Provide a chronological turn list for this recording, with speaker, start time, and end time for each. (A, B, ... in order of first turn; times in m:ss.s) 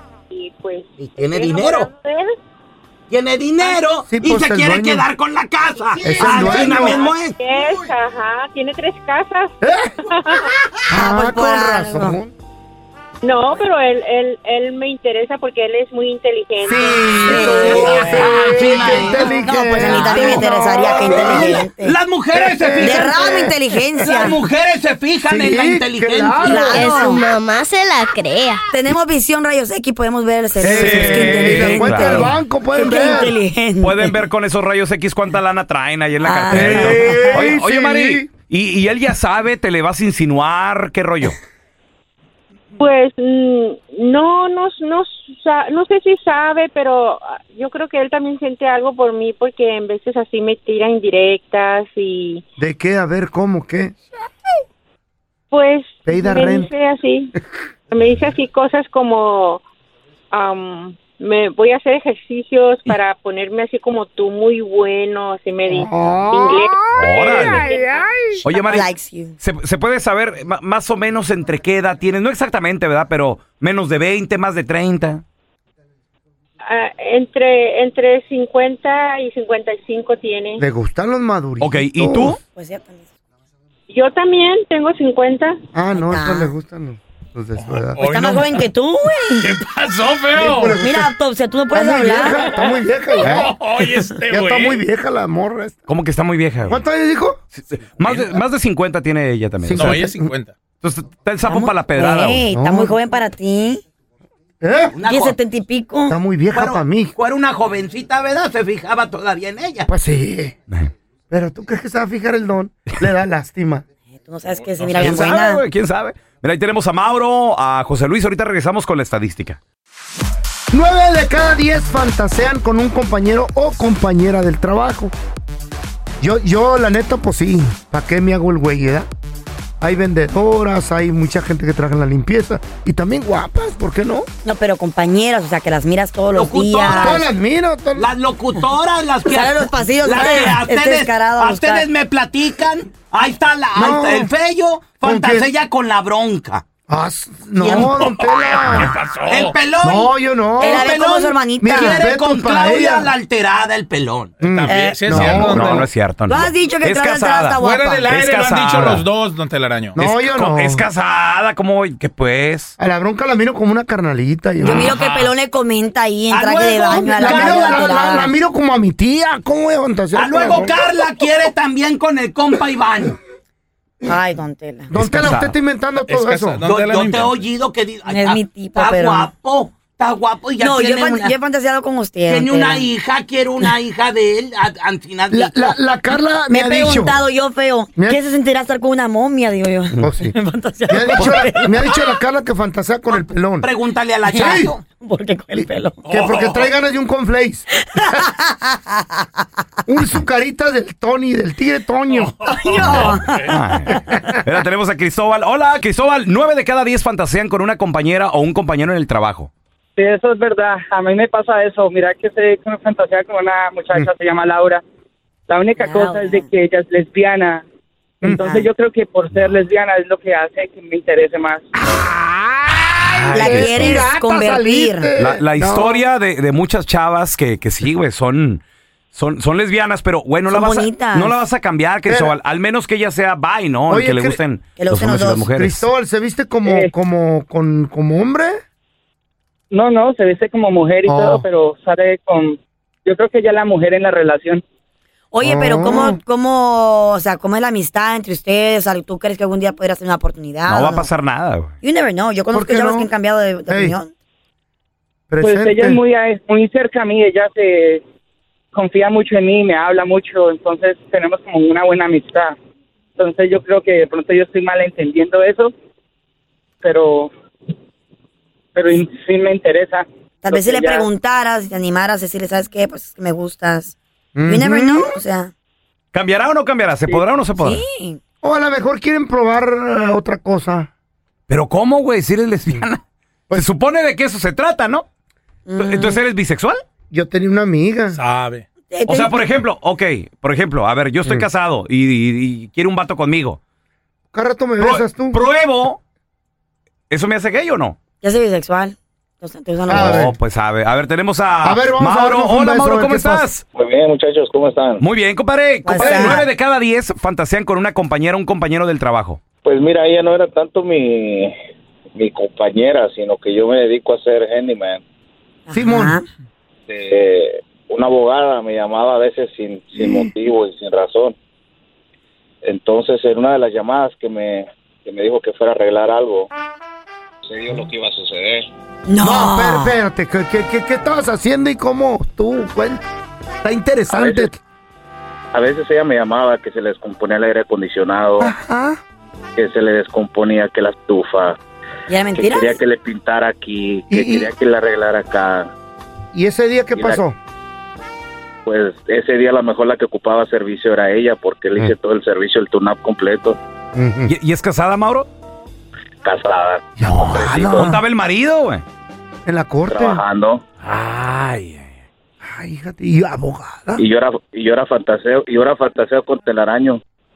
0:00.3-0:02.3 A
0:01.0-0:01.9 B
0:03.1-0:07.4 B
0:03.1-0:04.1 C
0:04.0-0:05.1 D
0:06.0-0:07.1 D
0:06.3-0:09.6 A
0:09.6-0:10.0 D
0:10.1-0:10.5 A
0:10.8-0:12.3 D
0:11.0-0:12.2 E
0:13.2-0:17.8 A
0:16.6-0:21.6 D
0:17.2-0:22.0 E
0:17.7-0:23.5 B
0:22.3-0:24.2 D
0:22.8-0:24.4 E
0:24.0-0:26.4 B
0:24.6-0:24.9 C
0:25.3-0:26.9 D
0:26.4-0:28.6 F
0:26.4-0:27.2 E
0:28.7-0:34.2 E
0:30.6-0:33.4 D
0:30.6-0:32.3 C
0:33.8-0:41.4 C
0:36.2-0:37.5 E
0:36.5-0:38.3 D
0:42.8-0:52.4 A
0:52.6-0:53.9 D
0:55.5-0:57.3 A
0:56.1-0:56.7 D
0:57.9-0:59.6 A
1:00.3-1:08.0 A
1:05.7-1:08.0 D
1:07.0-1:07.6 C
1:08.4-1:08.9 C
1:08.6-1:09.4 E
1:09.4-1:15.2 C
1:16.7-1:20.6 A
1:20.6-1:22.4 D
1:21.6-1:22.4 C
1:22.4-1:23.1 E
1:23.9-1:25.6 A
1:25.7-1:28.1 D
1:25.9-1:26.5 E
1:28.0-1:28.7 G
1:28.0-1:29.6 E
1:29.4-1:30.8 G
1:30.4-1:31.1 D
1:30.8-1:32.5 E
1:31.7-1:33.6 D
1:33.2-1:34.8 G
1:34.2-1:35.9 D
1:35.9-1:36.8 C
1:36.7-1:37.4 D
1:37.6-1:40.0 C
1:39.6-1:40.3 D
1:39.7-1:40.6 G
1:40.8-1:42.5 C
1:41.4-1:43.8 E
1:42.5-1:43.0 D
1:44.6-1:45.0 D
1:44.9-1:45.4 B
1:45.0-1:46.2 E
1:46.1-1:47.1 D
1:46.5-1:49.9 B
1:49.9-1:50.6 D
1:51.3-1:53.8 D
1:54.1-1:55.7 E
1:55.0-1:59.6 C
2:00.7-2:05.1 D
2:06.2-2:09.1 D
2:09.8-2:14.3 D
2:14.4-2:17.3 E
2:16.3-2:17.2 B
2:16.8-2:18.1 D
2:18.0-2:26.6 B
2:19.2-2:21.9 E
2:23.7-2:24.3 D
2:25.0-2:25.5 D
2:26.9-2:29.0 D
2:27.6-2:28.1 B
2:28.1-2:29.5 G
2:29.3-2:34.8 B
2:29.7-2:30.9 D
2:30.6-2:32.1 E
2:31.6-2:33.1 D
2:34.4-2:35.9 D
2:34.5-2:35.9 G
2:34.7-2:35.1 E
2:35.2-2:39.1 C
2:36.3-2:38.1 E
2:37.6-2:40.0 G
2:38.8-2:39.0 D
2:40.0-2:40.9 D
2:40.0-2:42.7 C
2:42.8-2:44.9 D
2:44.6-2:48.3 E
2:44.9-2:45.3 B
2:46.3-2:48.1 B
2:46.9-2:51.0 D
2:50.2-2:53.2 B
2:54.0-2:55.4 E
2:54.9-2:55.6 C
2:54.9-2:56.7 D
2:56.0-2:57.4 G
2:56.6-3:01.4 B
2:58.1-2:59.3 E
3:00.6-3:02.9 E
3:02.3-3:05.8 B
3:05.3-3:07.2 D
3:06.5-3:12.2 E
3:08.0-3:08.2 D
3:10.0-3:10.4 D
3:10.9-3:13.7 D
3:13.1-3:14.8 B
3:14.3-3:16.1 E
3:14.3-3:14.7 D
3:15.5-3:17.7 D
3:16.0-3:16.6 G
3:17.8-3:19.0 E
3:19.9-3:22.5 D
3:22.4-3:23.4 G
3:22.5-3:24.5 E
3:22.8-3:29.5 C
3:30.0-3:34.8 H
3:35.5-3:37.6 H
3:35.8-3:36.6 E
3:38.2-3:41.7 H
3:38.3-3:38.7 E
3:42.7-3:46.0 D
3:43.0-3:44.1 C
3:43.3-3:45.1 E
3:45.2-3:55.9 C
3:50.5-3:51.4 E
3:52.1-3:52.3 D
3:53.9-3:54.4 D
3:54.8-3:55.6 E
3:55.5-3:58.6 D
3:56.6-3:56.9 H
3:59.7-4:04.6 H
4:01.1-4:01.5 D
4:05.3-4:11.1 E
4:05.4-4:06.2 D
4:10.7-4:11.8 C
4:11.8-4:14.1 E
4:12.5-4:13.1 D
4:13.7-4:14.0 D
4:15.3-4:16.0 D
4:15.4-4:18.0 H
4:18.7-4:22.6 H
4:23.2-4:25.7 H
4:26.8-4:27.3 H
4:28.8-4:31.1 H
4:30.4-4:33.9 E
4:34.4-4:35.2 D
4:34.5-4:35.5 E
4:36.1-4:37.8 C
4:37.5-4:38.2 E
4:38.4-4:40.9 D
4:41.5-4:43.0 C
4:43.5-4:45.0 C
4:45.7-4:46.2 E
4:45.8-4:46.8 C
4:47.1-4:48.2 D
4:48.1-4:48.6 G
4:48.9-4:49.6 E
4:49.1-4:53.6 C
4:54.3-4:55.4 D
4:54.8-4:56.0 C
4:57.1-4:58.0 C
4:58.2-5:00.3 E
4:59.9-5:00.4 D
4:59.9-5:03.6 C
5:01.6-5:03.5 D
5:03.7-5:05.0 I
5:05.0-5:09.4 C
5:05.8-5:06.5 E
5:09.6-5:11.5 I
5:12.2-5:15.0 I
5:15.7-5:16.2 E
5:15.7-5:16.2 D
5:16.9-5:21.4 I
5:20.0-5:20.3 D
5:22.6-5:26.5 I
5:27.4-5:28.7 I
5:29.1-5:30.0 E
5:29.2-5:33.0 D
5:33.6-5:34.6 D
5:34.1-5:34.5 I
5:35.5-5:38.5 I
5:38.4-5:39.0 D
5:39.6-5:41.6 I
5:42.1-5:42.8 E
5:42.4-5:45.7 I
5:44.1-5:44.5 D
5:46.3-5:47.4 D
5:47.0-5:47.2 I
5:48.6-5:53.6 I
5:54.0-5:54.3 D
5:54.3-5:55.3 C
5:56.2-5:57.9 I
5:57.0-5:58.0 D
5:57.7-5:58.8 C
5:59.5-6:00.2 D
5:59.9-6:00.6 I
6:00.9-6:01.2 C
6:02.4-6:04.0 D
6:04.0-6:07.0 I